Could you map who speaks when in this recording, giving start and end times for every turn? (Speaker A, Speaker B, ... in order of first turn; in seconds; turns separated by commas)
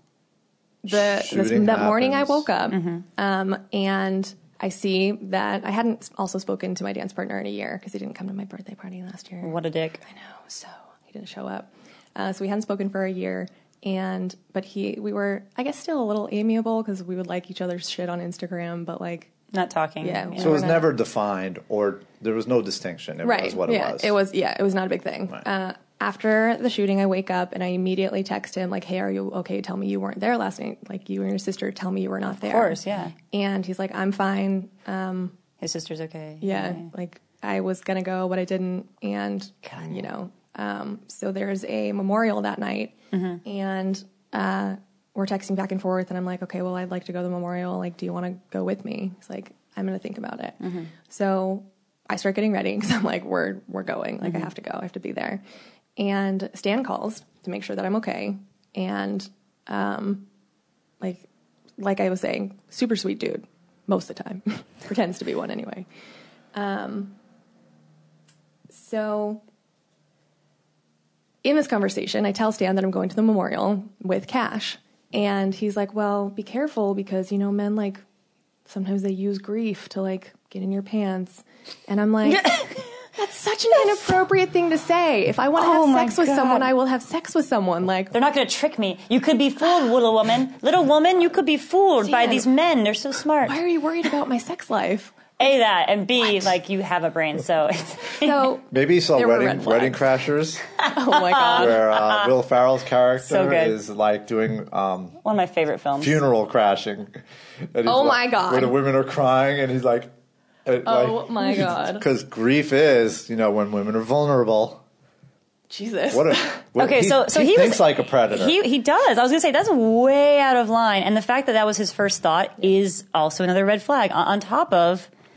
Speaker A: 0.8-9.5, Speaker B: 0.9-2.5, Speaker C: 2.7-3.0, Speaker C: 9.4-10.0, Speaker A: 10.0-19.3, Speaker C: 19.5-20.6, Speaker A: 20.0-20.9, Speaker B: 20.4-24.1, Speaker A: 23.2-35.4, Speaker C: 32.4-33.1, Speaker C: 35.6-36.9, Speaker A: 36.4-55.4, Speaker C: 39.6-40.0, Speaker C: 43.1-43.4, Speaker C: 50.6-50.9, Speaker A: 56.0-60.2, Speaker A: 61.0-61.3, Speaker A: 61.8-65.8, Speaker A: 66.5-67.1, Speaker A: 68.7-69.4, Speaker A: 71.4-78.0, Speaker A: 78.7-82.6, Speaker C: 82.2-82.8, Speaker A: 83.1-88.1, Speaker C: 85.5-86.7, Speaker C: 88.1-93.6, Speaker A: 92.0-92.5, Speaker A: 93.4-95.2, Speaker C: 95.4-98.5, Speaker A: 98.1-100.1, Speaker B: 98.7-100.7, Speaker A: 100.8-101.8, Speaker C: 101.2-102.3, Speaker B: 101.4-105.2, Speaker C: 103.2-103.8, Speaker C: 105.2-106.2, Speaker B: 106.0-107.2, Speaker B: 107.7-110.1, Speaker A: 107.8-108.7, Speaker B: 110.7-114.8, Speaker A: 110.8-112.0, Speaker A: 115.7-116.6, Speaker B: 116.1-118.6, Speaker C: 116.8-125.1